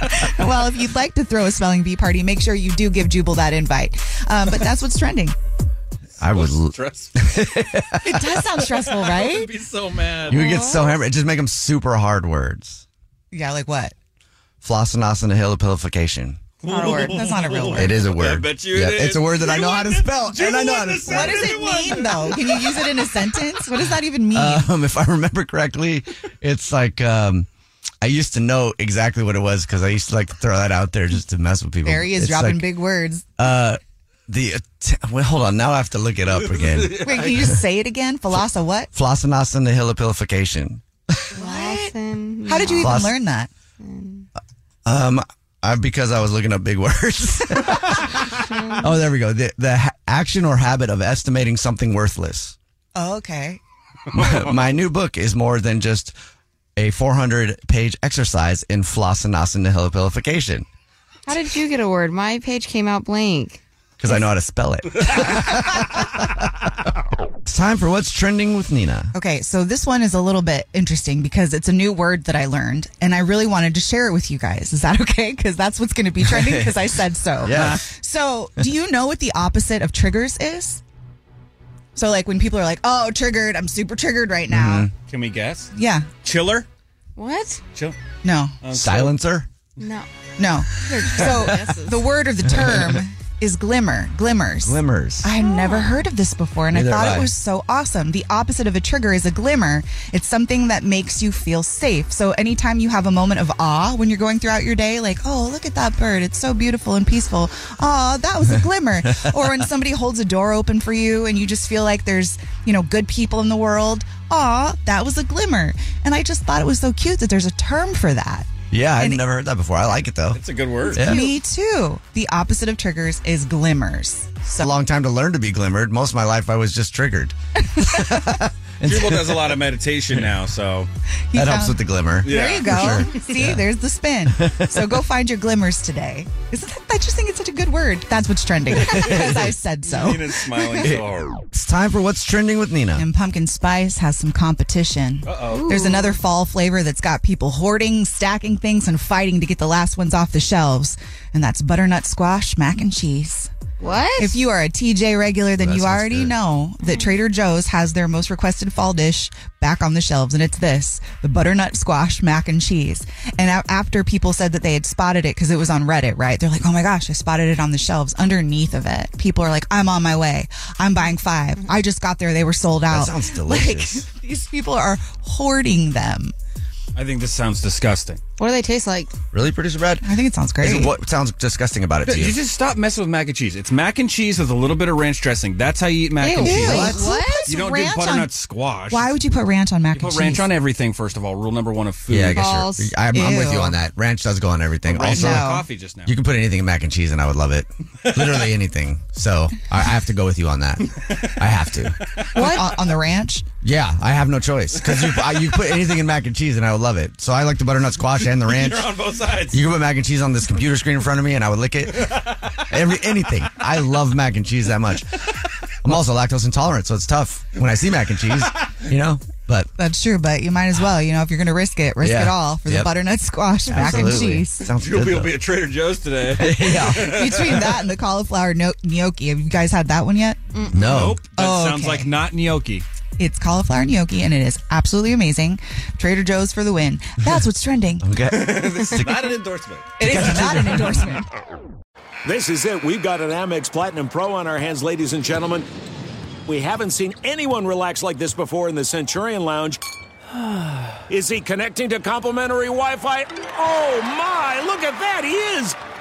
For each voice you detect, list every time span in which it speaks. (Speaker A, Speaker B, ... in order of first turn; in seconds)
Speaker A: 0.1-5.3, 8.0-9.5, 13.3-13.9, 16.6-18.1, 21.0-24.7, 31.8-33.2, 36.9-38.9, 41.4-43.5, 52.9-53.6, 69.1-80.8, 81.9-84.9, 85.7-86.1, 88.2-88.6, 90.4-119.2, 121.0-124.8, 131.3-140.9, 142.9-153.5, 154.1-176.3, 180.0-180.9, 186.4-188.3, 188.9-190.5, 193.1-193.8, 195.1-195.7, 202.3-203.4, 219.7-224.6, 226.6-230.4, 231.3-232.1, 233.2-238.1, 240.0-241.3
Speaker B: 6.2-8.1, 10.2-12.8, 14.6-16.4, 17.8-21.5, 24.3-27.5, 28.0-32.7, 33.4-37.6, 38.9-41.1, 42.8-43.1, 44.8-52.5, 54.1-56.1, 56.8-60.6, 64.0-66.2, 67.5-69.1, 76.2-76.9, 77.4-77.9, 84.5-84.9, 88.7-89.5, 94.6-95.3, 96.7-97.3, 118.7-120.4, 120.9-121.4, 124.6-129.5, 131.3-133.6, 134.4-134.8, 138.8-139.5, 140.8-143.0, 155.6-156.4, 172.9-174.0, 179.3-180.1, 180.6-182.4, 186.4-187.2, 192.1-201.9, 203.6-208.9, 209.5-215.2, 215.8-219.7, 222.0-222.9, 223.7-225.3, 226.4-227.1, 230.7-231.2, 238.0-239.0, 240.0-241.1
Speaker C: 6.2-7.3, 8.5-10.5, 16.6-23.1, 36.7-37.1, 84.9-85.7, 86.2-86.7, 88.6-89.2, 120.3-121.1, 128.8-130.9, 132.2-133.1, 138.8-141.4, 145.2-146.1, 176.9-178.2, 182.0-186.9, 187.5-189.2, 189.9-192.5, 194.8-196.1, 198.1-198.5, 208.4-209.6, 224.6-227.8, 230.7-232.8, 238.3-240.3
Speaker D: 10.5-10.9, 41.4-43.0, 43.8-44.2, 61.2-63.6, 87.2-87.6, 89.8-90.1, 90.9-92.1, 145.6-145.9, 153.8-154.4, 178.4-179.1, 186.2-187.4, 192.4-192.9
Speaker E: 242.2-245.6, 246.5-249.8, 251.1-255.7